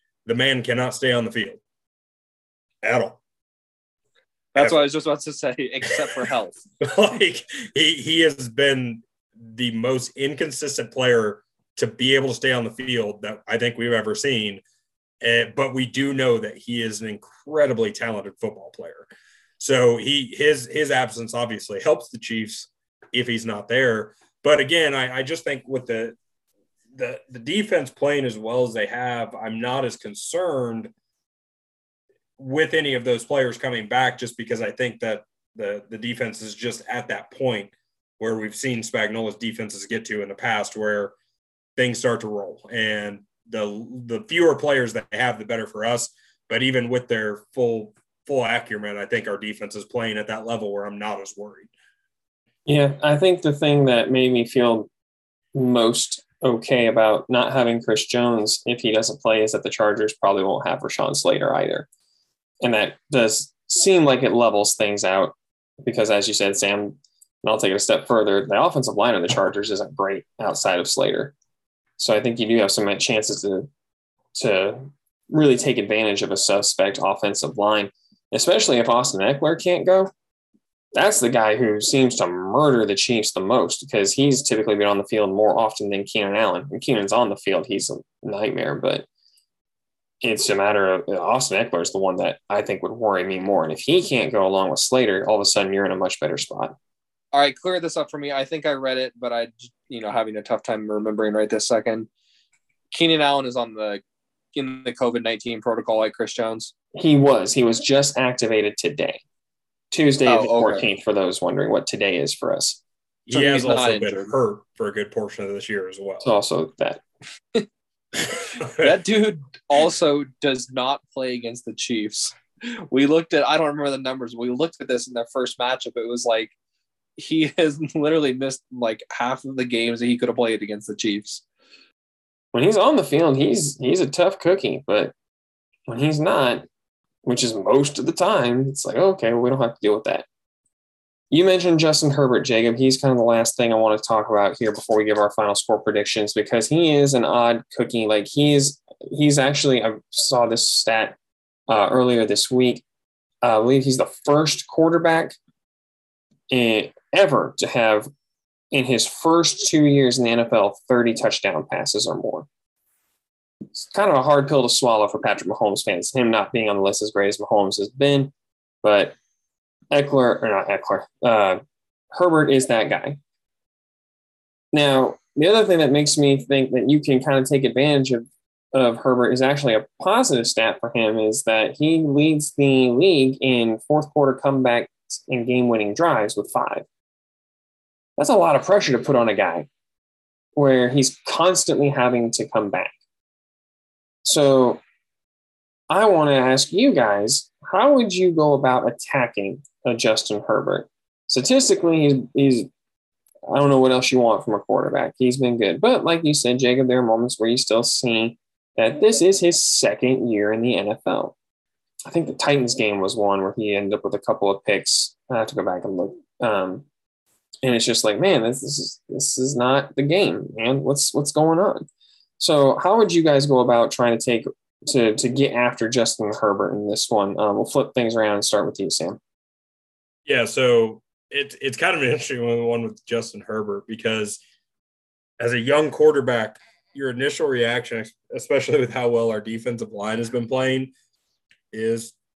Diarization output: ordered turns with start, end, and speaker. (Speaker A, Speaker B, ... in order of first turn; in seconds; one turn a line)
Speaker A: 0.2-1.6
Speaker A: 2.8-3.2
Speaker B: 4.5-6.6
Speaker A: 6.8-14.6
Speaker A: 15.2-19.1
Speaker A: 19.6-26.2
Speaker A: 26.9-30.9
Speaker A: 32.4-41.1
Speaker A: 41.8-51.7
Speaker C: 52.6-54.9
Speaker C: 55.5-61.9
Speaker C: 62.6-71.3
Speaker C: 72.0-73.7
Speaker C: 74.3-80.1
Speaker C: 80.9-89.1
Speaker C: 90.2-96.8
Speaker B: 97.3-102.1
Speaker B: 102.9-104.0
Speaker B: 104.5-106.7
Speaker C: 106.9-109.2
Speaker C: 109.9-112.8
Speaker B: 110.2-110.9
Speaker A: 113.3-116.3
Speaker B: 113.3-114.3
Speaker C: 116.2-117.0
Speaker B: 118.5-126.5
Speaker B: 127.2-131.4
Speaker C: 132.5-135.1
Speaker C: 135.9-136.6
Speaker C: 137.2-140.2
Speaker C: 141.3-151.2
Speaker C: 151.7-152.8
Speaker C: 153.4-155.3
Speaker C: 156.5-158.1
Speaker C: 158.7-162.5
Speaker C: 163.7-169.1
Speaker C: 169.9-171.6
Speaker C: 172.1-173.2
Speaker C: 174.7-186.8
Speaker C: 188.2-189.7
Speaker C: 190.6-192.9
Speaker C: 194.2-194.8
Speaker C: 195.9-202.7
Speaker C: 203.5-211.3
Speaker C: 212.1-216.8
Speaker C: 217.6-221.8
Speaker C: 222.4-229.2
Speaker A: 230.2-234.4
Speaker A: 235.4-240.9
Speaker A: 241.7-242.1